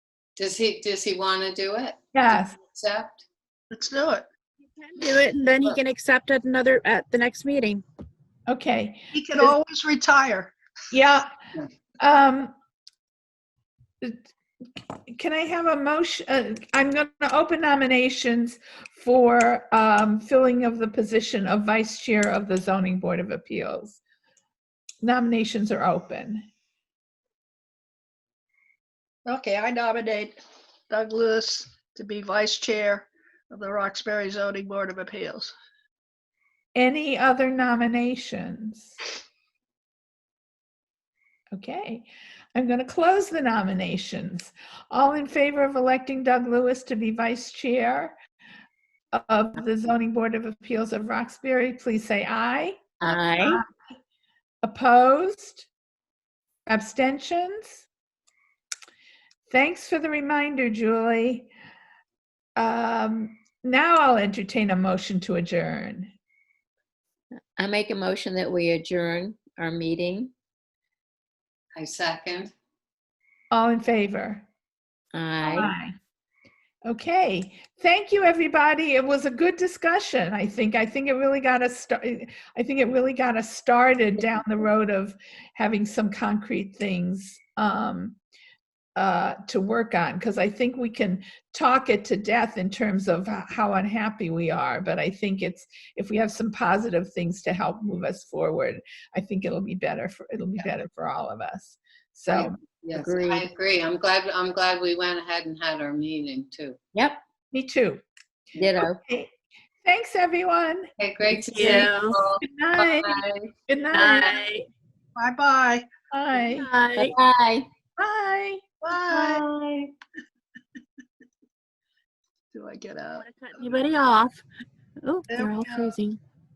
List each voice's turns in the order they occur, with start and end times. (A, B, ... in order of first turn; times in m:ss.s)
0:00.4-0:03.2 A
0:02.1-0:02.6 B
0:03.7-0:04.2 C
0:04.8-0:07.8 D
0:08.5-0:09.6 B
0:09.1-0:10.5 C
0:10.9-0:11.3 B
0:12.0-0:12.5 B
0:15.1-0:24.0 B
0:25.0-0:26.5 B
0:29.2-0:30.4 C
0:30.9-0:35.5 C
0:36.8-0:39.0 B
0:41.5-0:48.2 B
0:49.1-0:53.7 B
0:53.0-0:53.6 E
0:54.6-0:55.7 B
0:56.7-0:57.9 B
0:59.5-1:01.5 B
1:02.6-1:06.1 B
1:07.6-1:10.3 E
1:11.8-1:12.5 A
1:13.5-1:14.5 B
1:15.1-1:15.7 E
1:15.4-1:16.0 B
1:16.9-1:28.2 B
1:29.0-1:42.6 B
1:42.3-1:46.8 A
1:42.9-1:43.5 E
1:46.9-1:47.2 E
1:47.5-1:48.0 B
1:48.6-1:49.0 E
1:48.8-1:50.9 B
1:51.0-1:53.5 A
1:51.4-1:52.2 D
1:51.6-1:54.4 B
1:53.9-1:54.6 D
1:55.2-1:55.9 C
1:56.1-1:56.7 B
1:56.3-1:57.2 D
1:57.0-1:57.7 E
1:58.0-1:59.4 B
1:58.8-1:59.4 C
1:59.4-1:59.9 A
2:02.5-2:03.6 C
2:03.2-2:04.4 D
2:05.0-2:06.2 D
2:05.3-2:06.0 C